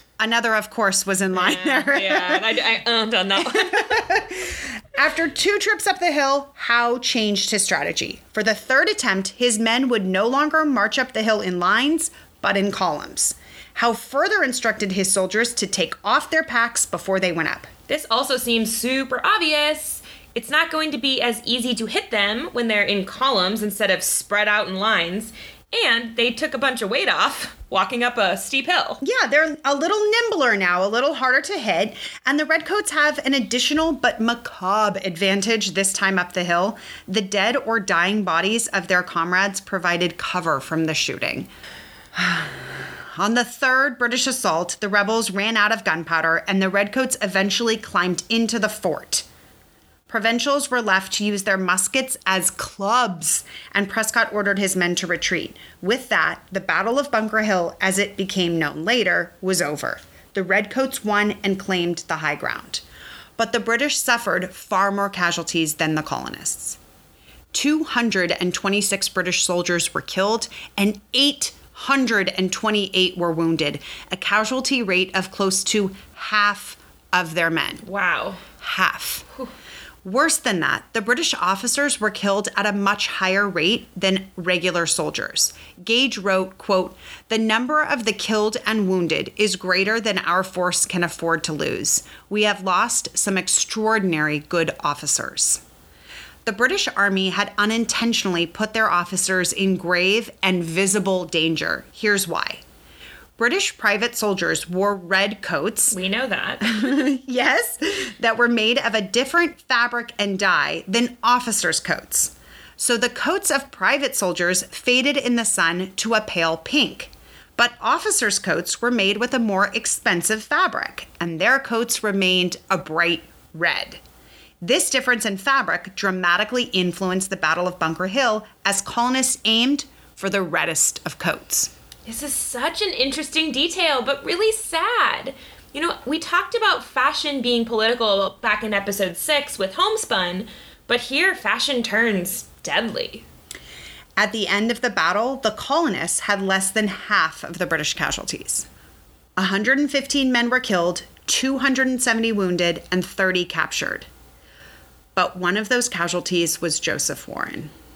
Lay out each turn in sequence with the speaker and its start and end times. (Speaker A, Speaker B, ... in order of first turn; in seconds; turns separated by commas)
Speaker A: 0.2-2.5, Speaker B: 1.3-4.1, Speaker A: 3.4-17.7, Speaker B: 17.9-29.0, Speaker A: 29.0-41.5, Speaker A: 42.1-49.3, Speaker A: 50.1-62.8, Speaker A: 63.4-66.8, Speaker A: 67.5-77.8, Speaker B: 77.8-78.4, Speaker A: 78.6-79.2, Speaker A: 80.0-95.6, Speaker A: 96.5-102.6, Speaker A: 103.4-106.0, Speaker B: 105.9-107.0, Speaker A: 106.6-124.0, Speaker A: 124.6-131.7, Speaker B: 132.1-143.2, Speaker A: 144.2-148.7, Speaker A: 149.4-154.1, Speaker A: 155.2-157.7